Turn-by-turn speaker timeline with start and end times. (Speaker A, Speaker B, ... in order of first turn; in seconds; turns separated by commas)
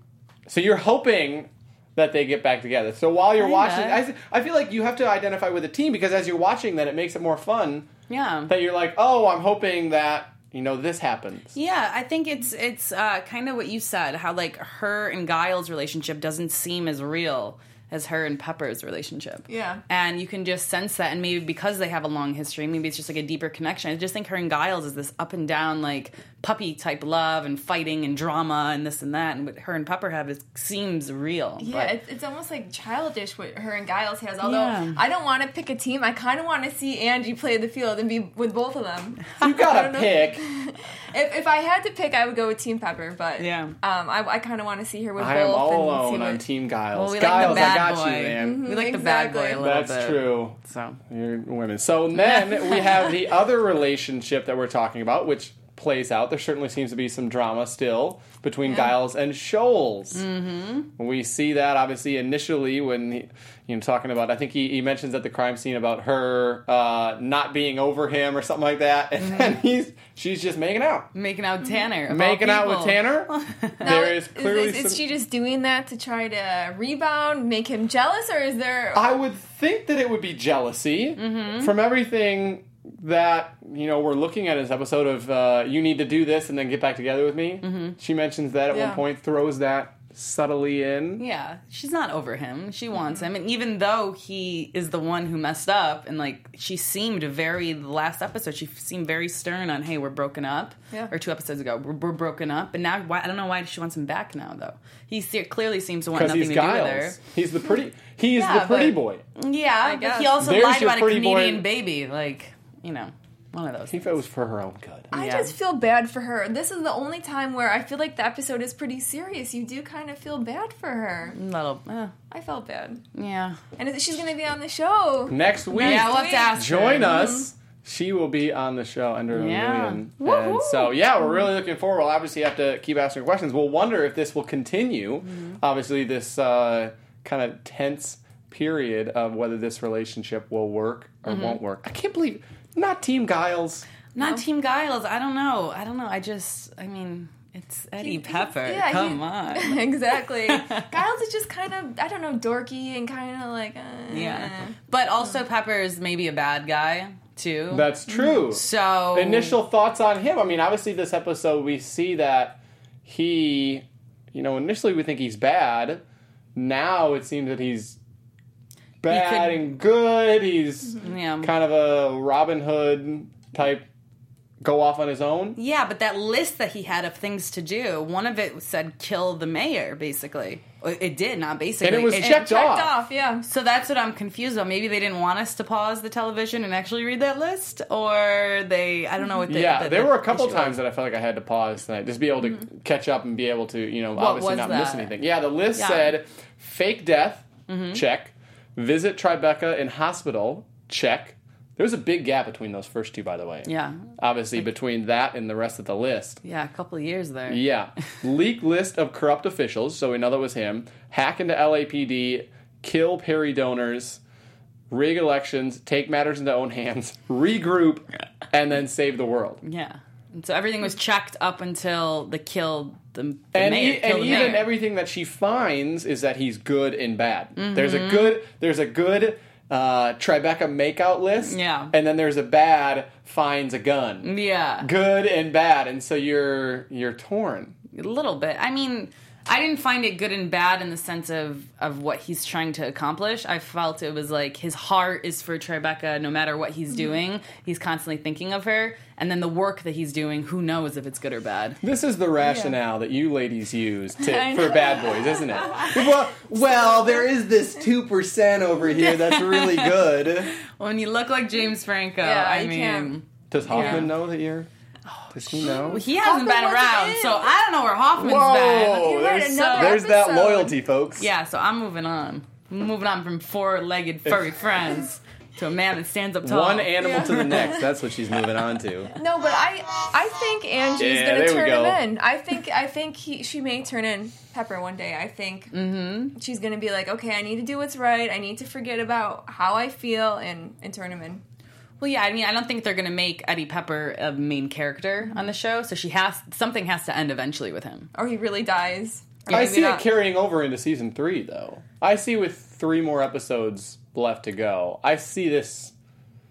Speaker A: 0.5-7.9, Speaker B: 3.4-4.0, Speaker B: 8.1-8.5, Speaker A: 8.5-11.5, Speaker B: 11.6-31.9, Speaker C: 19.5-19.8, Speaker C: 31.6-46.4, Speaker B: 34.4-35.0, Speaker A: 39.4-40.4, Speaker B: 43.4-43.7, Speaker A: 45.2-48.6, Speaker B: 46.9-51.0, Speaker C: 48.4-49.6, Speaker A: 49.6-60.2, Speaker B: 52.2-53.2, Speaker C: 58.7-58.9, Speaker B: 60.1-60.9, Speaker A: 61.0-71.1, Speaker B: 69.2-69.6, Speaker B: 71.1-73.9, Speaker A: 72.1-75.0, Speaker C: 73.8-79.2, Speaker A: 79.0-91.2, Speaker B: 81.2-81.7, Speaker B: 87.6-88.0, Speaker C: 88.7-89.0, Speaker B: 91.2-107.2, Speaker C: 93.0-93.3, Speaker A: 106.2-109.2, Speaker C: 108.4-108.9, Speaker B: 108.6-114.2, Speaker C: 109.8-110.4, Speaker A: 110.4-111.7, Speaker A: 113.9-115.1, Speaker C: 115.1-121.4, Speaker B: 115.1-115.5, Speaker B: 121.3-122.1, Speaker C: 122.3-123.0, Speaker B: 123.1-123.6, Speaker C: 123.8-127.5, Speaker A: 125.3-143.9, Speaker B: 125.8-127.3, Speaker B: 129.3-130.9, Speaker B: 135.2-135.6, Speaker B: 141.3-141.6, Speaker B: 144.1-149.8, Speaker C: 148.0-154.8, Speaker B: 150.5-150.9, Speaker B: 154.1-159.6, Speaker A: 157.7-166.0, Speaker C: 158.1-158.4, Speaker A: 166.6-168.0, Speaker A: 169.0-173.9, Speaker B: 169.1-169.7, Speaker B: 171.0-171.5, Speaker A: 174.6-175.6, Speaker B: 175.6-182.5, Speaker A: 181.8-182.9, Speaker C: 182.2-183.5, Speaker B: 183.4-190.8, Speaker A: 189.5-206.4, Speaker B: 194.2-195.1, Speaker B: 195.8-196.2, Speaker B: 197.7-198.0, Speaker B: 203.7-204.1, Speaker B: 206.4-207.6, Speaker A: 207.5-214.2, Speaker A: 214.9-219.6, Speaker B: 219.6-224.7, Speaker A: 223.5-234.3, Speaker B: 227.6-228.4, Speaker B: 231.4-231.9, Speaker B: 234.2-234.9, Speaker A: 234.8-237.8, Speaker B: 237.9-251.8, Speaker A: 251.8-260.6, Speaker C: 252.4-252.8, Speaker C: 254.2-257.2, Speaker B: 259.0-260.1, Speaker B: 260.6-264.1, Speaker C: 262.2-263.2, Speaker A: 263.5-264.7, Speaker C: 263.7-264.1, Speaker A: 265.3-266.0, Speaker B: 265.5-270.0, Speaker C: 265.6-267.5, Speaker A: 268.2-271.3, Speaker C: 269.0-270.8, Speaker B: 271.2-277.6, Speaker A: 276.4-279.1, Speaker C: 277.0-277.8, Speaker C: 279.2-285.7, Speaker A: 281.0-282.0, Speaker B: 285.7-286.4, Speaker C: 286.3-291.4, Speaker B: 292.0-298.1, Speaker C: 298.1-300.1, Speaker A: 299.5-305.9